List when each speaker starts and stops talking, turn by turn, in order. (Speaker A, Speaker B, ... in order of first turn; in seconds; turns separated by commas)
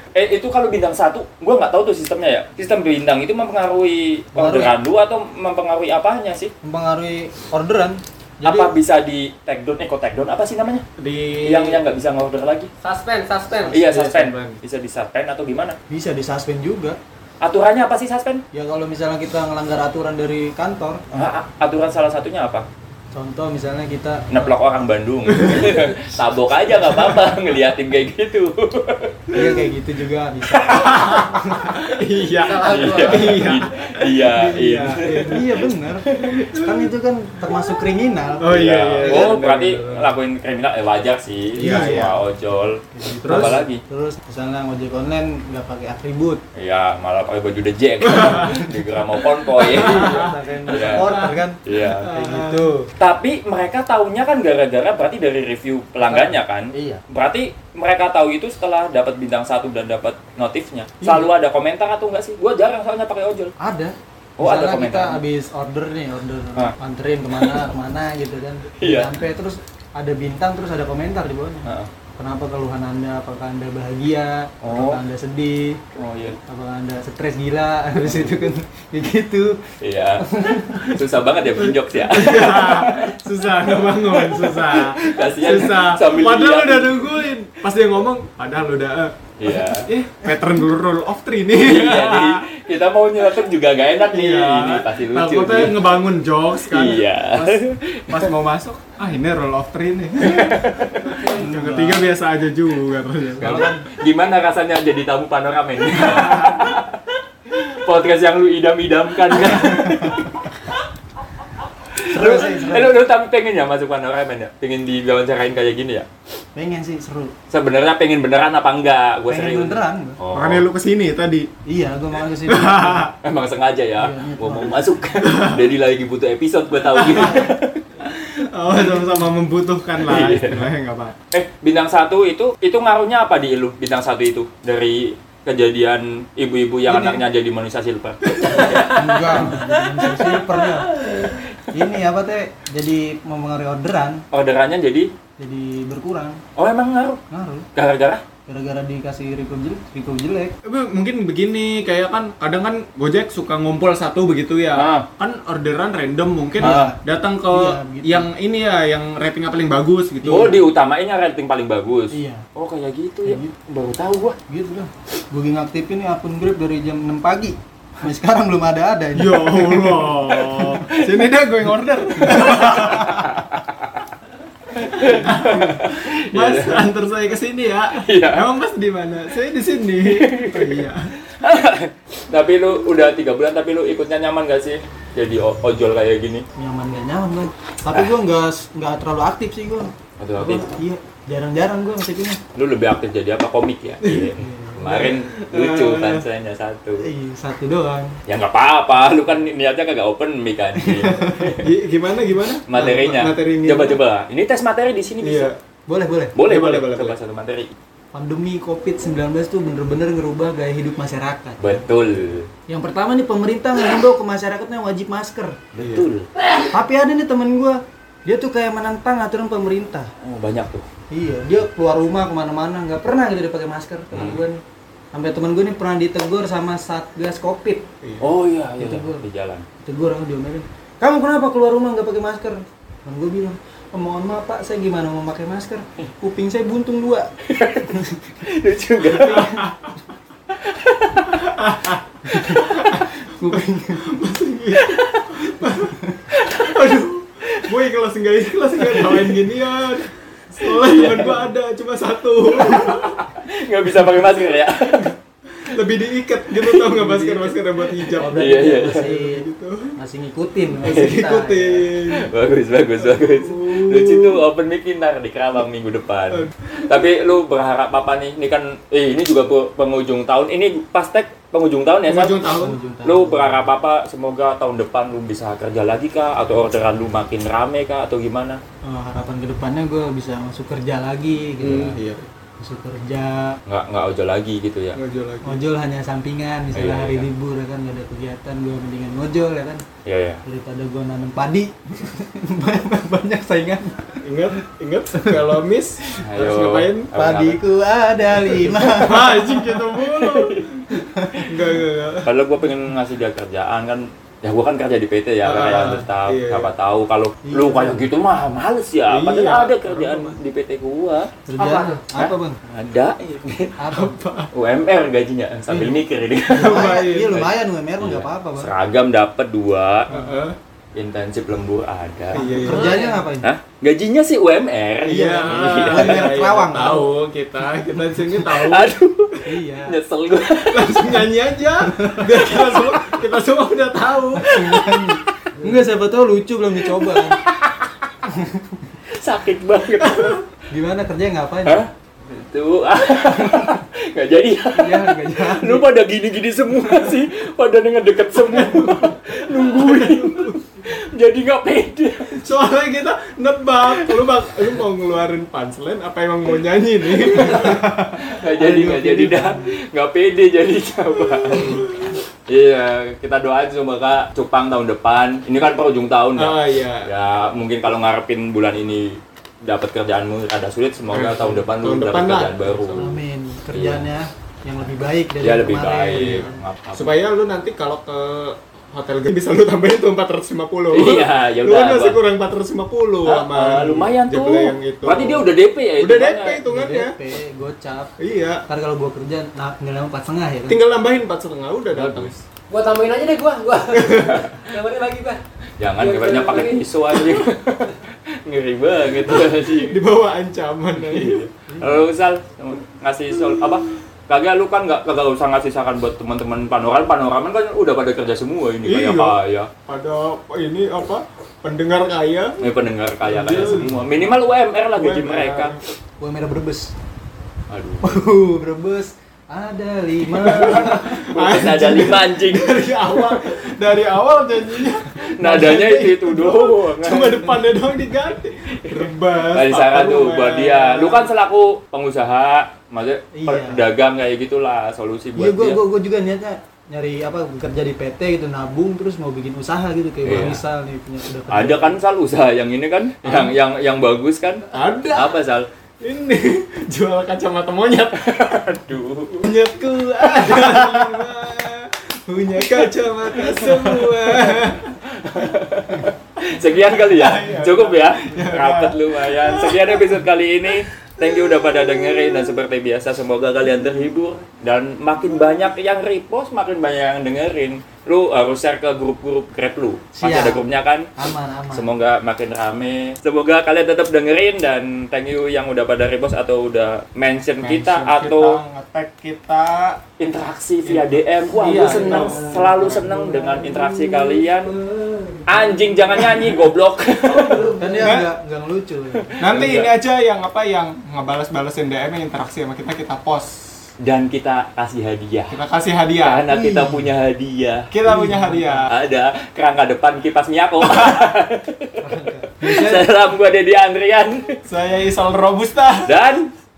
Speaker A: 0.1-6.5, Speaker B: 4.3-4.8, Speaker B: 6.6-8.7, Speaker A: 8.4-10.8, Speaker C: 11.0-11.8, Speaker A: 11.4-12.7, Speaker D: 12.8-13.8, Speaker C: 13.7-14.6, Speaker A: 13.7-15.8, Speaker B: 15.9-17.0, Speaker A: 17.4-18.4, Speaker B: 18.5-21.0, Speaker A: 21.1-22.7, Speaker B: 23.1-24.5, Speaker A: 24.3-29.4, Speaker C: 25.4-25.8, Speaker B: 29.3-31.8, Speaker A: 30.6-31.1, Speaker C: 30.7-36.9, Speaker D: 32.4-33.5, Speaker A: 32.6-36.4, Speaker B: 35.3-39.4, Speaker C: 38.4-40.1, Speaker A: 38.5-43.8, Speaker B: 41.5-42.2, Speaker C: 41.6-42.2, Speaker C: 43.0-43.6, Speaker B: 43.2-46.4, Speaker A: 46.5-52.1, Speaker C: 48.1-48.6, Speaker B: 48.4-48.7, Speaker B: 49.5-52.9, Speaker C: 49.6-52.7, Speaker A: 53.0-63.5, Speaker B: 56.0-57.0, Speaker B: 61.0-61.3, Speaker B: 63.6-75.8, Speaker A: 64.4-65.2, Speaker A: 68.8-69.2, Speaker A: 71.7-71.9, Speaker A: 74.6-75.0, Speaker A: 76.0-76.4, Speaker B: 76.5-81.0, Speaker A: 79.8-87.3, Speaker C: 81.6-92.5, Speaker A: 89.4-89.9, Speaker A: 91.6-96.0, Speaker C: 94.1-103.7, Speaker A: 96.7-98.3, Speaker A: 100.2-101.2, Speaker B: 101.1-102.1, Speaker B: 103.4-103.9, Speaker A: 103.4-110.7, Speaker C: 106.1-106.5, Speaker A: 112.0-116.1, Speaker B: 112.0-113.0, Speaker B: 116.5-117.3, Speaker A: 117.5-120.7, Speaker B: 119.3-120.2, Speaker C: 120.3-121.5, Speaker B: 121.7-123.1, Speaker C: 122.5-123.2, Speaker A: 123.2-127.8, Speaker B: 124.0-125.4, Speaker C: 125.2-125.7, Speaker C: 126.9-127.5, Speaker C: 128.0-131.2, Speaker A: 130.0-130.7, Speaker A: 131.3-141.4, Speaker B: 136.9-137.2, Speaker C: 138.4-138.8, Speaker B: 138.7-141.1, Speaker B: 141.7-144.2, Speaker A: 144.3-145.1, Speaker B: 145.4-146.4, Speaker A: 146.6-147.2, Speaker B: 147.3-147.7, Speaker A: 147.8-148.2, Speaker B: 148.5-150.6, Speaker C: 150.6-160.6, Speaker A: 154.7-155.1, Speaker A: 156.6-156.9, Speaker B: 156.6-158.3, Speaker A: 160.2-164.4, Speaker B: 162.1-162.5, Speaker B: 163.2-163.5, Speaker B: 164.5-170.1, Speaker C: 169.2-173.4, Speaker A: 170.2-170.8, Speaker A: 172.3-173.9, Speaker A: 174.7-176.9, Speaker C: 174.9-181.1, Speaker A: 177.9-178.5, Speaker A: 180.1-186.4, Speaker B: 186.6-192.4, Speaker A: 190.2-190.7, Speaker A: 192.6-197.1, Speaker C: 194.0-194.3, Speaker B: 194.4-194.8, Speaker C: 194.8-196.2, Speaker B: 197.0-198.2, Speaker A: 198.3-201.7, Speaker B: 200.8-201.5, Speaker C: 201.5-204.0, Speaker A: 202.7-205.5, Speaker C: 205.2-205.6, Speaker B: 205.9-206.4, Speaker A: 206.3-207.7, Speaker C: 206.4-207.2, Speaker B: 208.1-211.8, Speaker A: 211.6-212.5, Speaker B: 212.7-215.6, Speaker A: 215.7-216.3, Speaker C: 215.8-216.1, Speaker B: 216.7-220.1, Speaker A: 220.2-220.9, Speaker B: 221.1-224.6, Speaker A: 224.1-224.4, Speaker B: 225.1-227.9, Speaker C: 228.0-228.3, Speaker A: 228.2-229.7, Speaker B: 228.8-229.2, Speaker B: 229.8-237.3, Speaker A: 237.4-239.6, Speaker B: 237.9-238.2, Speaker C: 239.1-240.0, Speaker B: 239.1-239.6, Speaker A: 240.6-241.5, Speaker C: 241.3-253.2, Speaker B: 242.3-244.1, Speaker A: 244.8-245.4, Speaker A: 246.3-247.0, Speaker A: 248.8-249.3, Speaker A: 250.6-251.4, Speaker A: 252.6-255.2, Speaker C: 255.5-260.0, Speaker B: 256.9-257.6, Speaker A: 258.1-259.1, Speaker B: 258.2-261.9, Speaker C: 260.8-262.3, Speaker A: 262.1-278.6, Speaker C: 263.0-264.4, Speaker C: 266.3-266.7, Speaker C: 272.1-272.8, Speaker B: 272.6-273.7, Speaker B: 278.8-282.0, Speaker C: 281.6-282.3, Speaker B: 282.6-283.6, Speaker A: 283.7-285.0, Speaker C: 284.9-285.6, Speaker B: 285.4-289.8, Speaker A: 286.7-287.3, Speaker A: 290.1-290.4, Speaker B: 290.4-294.2, Speaker C: 294.2-297.1, Speaker A: 296.2-297.6, Speaker B: 297.1-299.9, Speaker C: 298.8-302.3, Speaker A: 300.0-300.7, Speaker B: 300.9-301.6, Speaker A: 302.2-311.3, Speaker C: 305.4-306.7, Speaker B: 307.4-308.0, Speaker C: 309.1-310.4, Speaker B: 311.5-312.6, Speaker C: 311.6-312.0, Speaker A: 312.1-313.8, Speaker B: 313.8-314.2, Speaker C: 313.9-314.5, Speaker A: 314.5-320.1, Speaker B: 315.7-318.7, Speaker C: 316.5-317.4, Speaker C: 320.1-320.6, Speaker A: 320.9-326.3, Speaker C: 322.3-323.0, Speaker B: 322.5-323.5, Speaker D: 322.6-323.2, Speaker B: 325.1-327.1, Speaker C: 325.1-328.9, Speaker A: 328.5-331.3, Speaker B: 329.4-330.0, Speaker C: 330.7-334.9, Speaker B: 331.9-332.4, Speaker A: 332.4-333.0, Speaker B: 334.4-337.4, Speaker A: 334.5-335.2, Speaker A: 336.9-338.0, Speaker B: 338.3-338.9, Speaker A: 339.1-340.4, Speaker C: 340.1-340.4, Speaker B: 340.7-341.9, Speaker A: 341.6-352.5, Speaker B: 344.8-345.9, Speaker C: 348.4-350.6, Speaker C: 352.4-358.1, Speaker A: 353.9-354.2, Speaker A: 357.3-373.1, Speaker B: 358.5-359.7, Speaker C: 366.4-367.1, Speaker C: 371.1-373.1, Speaker B: 373.0-376.5, Speaker A: 373.7-374.1, Speaker A: 375.4-377.2, Speaker C: 376.1-387.2, Speaker A: 380.9-382.2, Speaker A: 383.2-386.6, Speaker B: 386.7-388.1, Speaker C: 388.2-388.6, Speaker B: 388.7-390.8, Speaker C: 390.7-392.4, Speaker A: 391.9-392.3, Speaker D: 392.7-395.4, Speaker C: 393.9-394.3, Speaker A: 395.8-400.0, Speaker D: 396.0-397.5, Speaker C: 399.6-401.5, Speaker A: 401.0-409.7, Speaker B: 401.7-402.1, Speaker C: 408.9-412.6, Speaker A: 412.6-415.8, Speaker C: 413.2-414.0, Speaker C: 414.9-415.8, Speaker B: 416.2-416.9, Speaker A: 417.7-418.2, Speaker B: 418.0-421.1, Speaker A: 420.4-422.8, Speaker C: 420.4-431.3, Speaker A: 425.3-427.6, Speaker A: 428.9-435.8, Speaker B: 433.3-433.9, Speaker B: 435.4-442.0, Speaker A: 440.2-440.6, Speaker A: 441.5-445.7, Speaker C: 443.2-443.6, Speaker C: 444.7-445.4, Speaker C: 446.0-448.7, Speaker A: 448.2-449.5, Speaker C: 449.4-455.0, Speaker A: 450.4-451.0, Speaker A: 453.4-471.1, Speaker C: 456.9-460.1, Speaker B: 470.1-470.6, Speaker B: 471.1-471.9, Speaker A: 471.7-478.6, Speaker C: 477.6-480.0, Speaker A: 480.2-484.8, Speaker C: 480.9-483.5, Speaker A: 485.5-487.8, Speaker C: 486.2-486.5, Speaker B: 487.7-489.4, Speaker C: 488.0-488.3, Speaker A: 489.2-489.9, Speaker C: 489.4-493.8, Speaker A: 494.0-495.6, Speaker C: 495.5-496.5, Speaker A: 496.2-497.9, Speaker B: 496.5-497.1, Speaker C: 497.9-498.9, Speaker B: 498.1-498.9, Speaker A: 498.9-502.0, Speaker B: 502.0-503.1, Speaker A: 502.6-504.6, Speaker C: 504.7-506.2, Speaker A: 506.1-506.5